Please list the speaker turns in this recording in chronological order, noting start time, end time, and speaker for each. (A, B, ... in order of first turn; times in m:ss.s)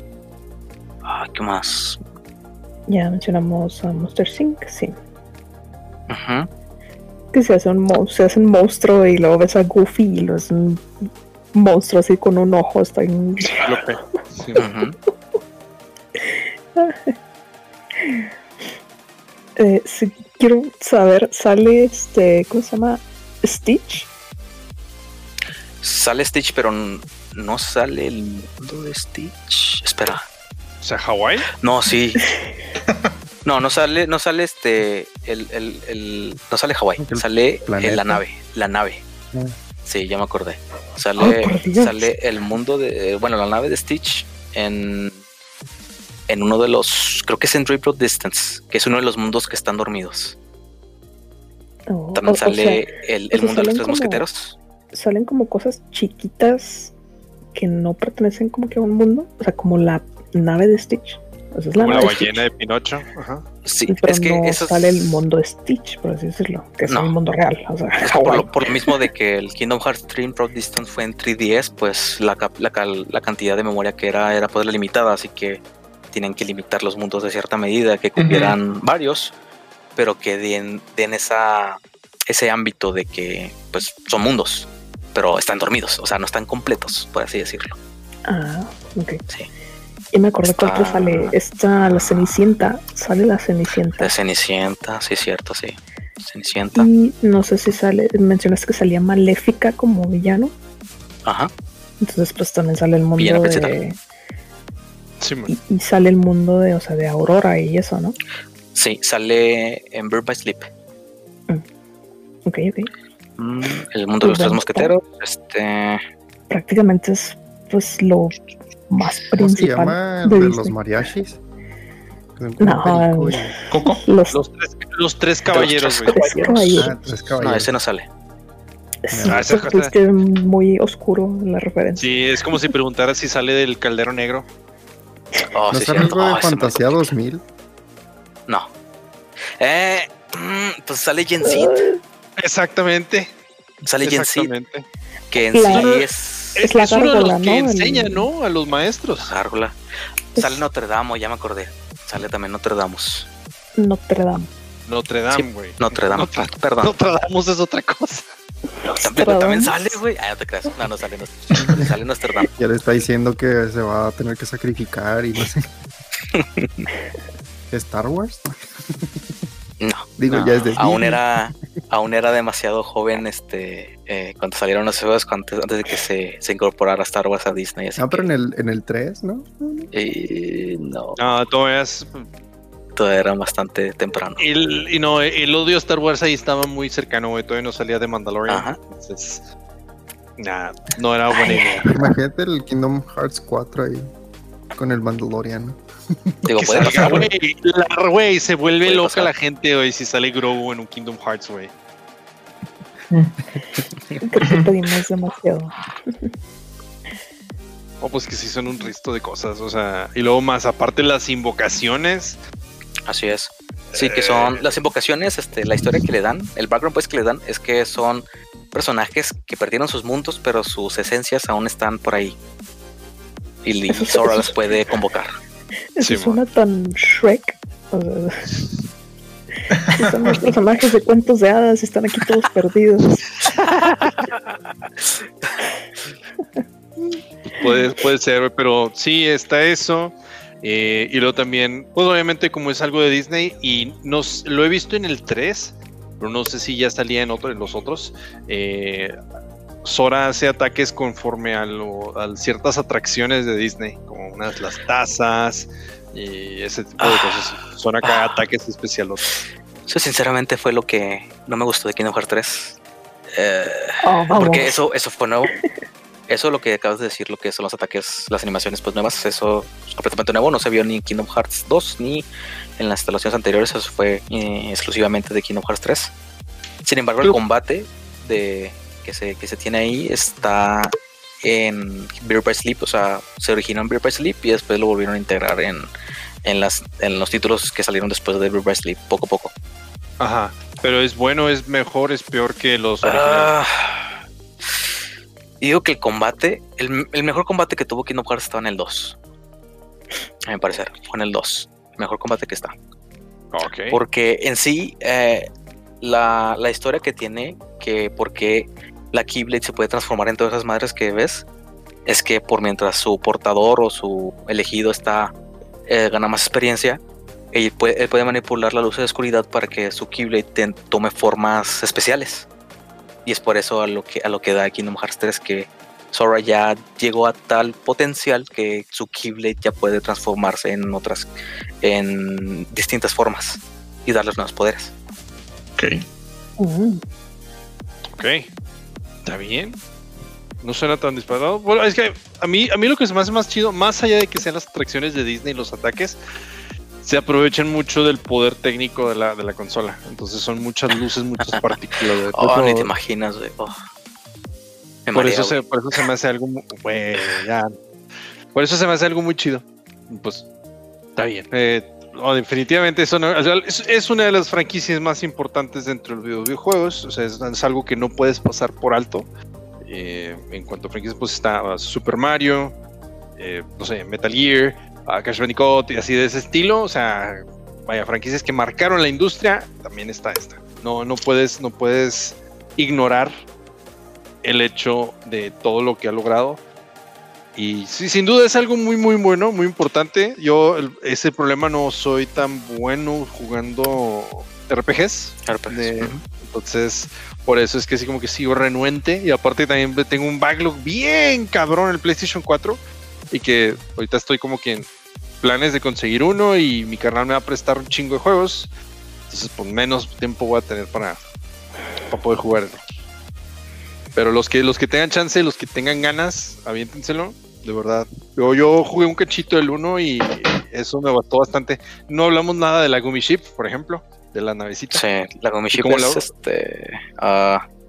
0:01.0-0:02.0 A
0:02.9-0:04.9 B
0:06.1-0:06.5 A
0:07.3-0:10.9 B
0:11.5-0:13.8 B
0:13.6-0:14.6 C
0:14.6-0:14.9 A
0:16.2-0:17.1 B
0:18.0-0:18.2 B
0:19.6-0:24.1 B
0:25.8-0:30.2 A
0:30.8-0:31.5 C
0:31.6-0:32.2 A
0:33.4-0:39.0 A
0:37.0-0:38.2 D
0:39.8-0:45.2 A
0:41.2-0:42.1 B
0:46.3-0:50.4 A
0:51.9-0:54.2 B
0:52.2-0:54.6 A
0:54.9-0:56.9 B
0:57.5-1:02.3 B
1:01.8-1:03.4 C
1:02.0-1:02.4 A
1:03.6-1:05.2 A
1:03.9-1:09.0 B
1:06.9-1:07.1 A
1:08.0-1:15.6 A
1:16.1-1:19.3 A
1:18.2-1:18.6 E
1:20.0-1:27.8 A
1:28.2-1:29.2 B
1:30.1-1:34.1 B
1:30.4-1:32.5 A
1:34.0-1:36.9 A
1:36.7-1:40.5 B
1:41.2-1:41.5 A
1:42.0-1:44.0 B
1:43.2-1:43.8 A
1:45.2-1:45.6 C
1:45.5-1:48.2 B
1:48.7-1:50.7 A
1:52.4-1:52.9 B
1:53.4-1:56.0 A
1:54.2-1:54.9 B
1:56.5-2:00.7 B
1:59.4-2:01.4 D
2:02.4-2:03.5 D
2:02.6-2:04.4 B
2:03.7-2:04.0 E
2:04.3-2:06.9 C
2:05.5-2:06.1 A
2:06.1-2:06.9 B
2:06.7-2:07.7 D
2:07.4-2:08.1 A
2:09.1-2:12.7 B
2:09.1-2:09.6 D
2:09.3-2:09.9 C
2:12.0-2:14.4 C
2:15.5-2:17.0 A
2:15.7-2:17.4 D
2:19.6-2:21.8 A
2:21.4-2:22.0 B
2:22.4-2:23.4 C
2:23.8-2:24.5 A
2:24.0-2:24.8 C
2:25.3-2:26.6 A
2:25.5-2:25.9 B
2:25.7-2:29.3 C
2:26.6-2:28.3 B
2:29.2-2:29.8 A
2:30.3-2:30.6 B
2:30.4-2:33.3 A
2:33.8-2:34.5 B
2:34.9-2:38.3 C
2:35.3-2:36.9 A
2:38.8-2:40.0 B
2:39.0-2:42.5 A
2:42.6-2:45.7 D
2:46.3-2:46.8 A
2:47.7-2:49.1 D
2:49.8-2:58.3 A
2:50.2-2:51.2 D
2:58.0-2:59.9 D
2:59.9-3:01.2 A
3:01.2-3:02.3 C
3:03.0-3:04.5 A
3:04.4-3:09.5 C
3:08.5-3:08.8 A
3:10.4-3:11.9 C
3:11.4-3:11.8 B
3:11.9-3:14.1 D
3:14.7-3:16.4 D
3:16.4-3:17.3 A
3:16.6-3:21.7 C
3:18.8-3:19.3 A
3:23.1-3:23.4 E
3:24.2-3:26.3 B
3:24.4-3:24.7 E
3:28.0-3:32.4 C
3:33.1-3:42.4 A
3:33.9-3:34.7 C
3:43.6-3:45.3 A
3:43.9-3:44.5 B
3:46.0-3:48.7 B
3:46.0-3:46.4 C
3:49.7-3:50.4 E
3:50.0-3:53.3 B
3:56.6-3:57.8 B
3:57.5-4:09.2 C
4:09.8-4:19.4 C
4:17.0-4:18.4 A
4:19.9-4:22.8 A
4:23.3-4:25.5 A
4:24.0-4:24.8 B
4:26.3-4:32.3 A
4:32.8-4:36.1 A
4:36.8-4:45.9 A
4:46.4-4:49.5 A
4:50.2-4:53.5 C
4:53.0-4:54.9 A
4:55.6-4:59.2 A
5:00.5-5:02.7 A
5:03.5-5:04.0 C
5:03.9-5:05.5 A
5:06.0-5:11.4 A
5:12.0-5:15.3 A
5:15.9-5:17.0 A
5:17.5-5:22.5 A
5:23.2-5:34.9 A
5:35.8-5:36.0 E
5:36.6-5:37.0 B
5:38.1-5:38.5 C
5:39.2-5:39.8 C
5:40.6-5:46.2 C
5:47.0-5:52.9 C
5:51.4-5:51.8 A
5:52.3-5:53.8 A
5:55.1-5:56.0 A
5:55.1-5:57.8 C
5:58.5-6:00.5 C
6:01.2-6:09.3 C
6:09.8-6:12.8 C
6:13.4-6:23.3 C
6:24.4-6:26.6 C
6:27.5-6:42.8 C
6:35.4-6:36.2 A
6:43.3-6:44.9 C
6:45.4-6:48.7 C
6:49.3-6:51.2 C
6:52.1-6:52.8 C
6:54.2-7:05.0 C
7:04.9-7:07.6 A
7:05.7-7:06.2 C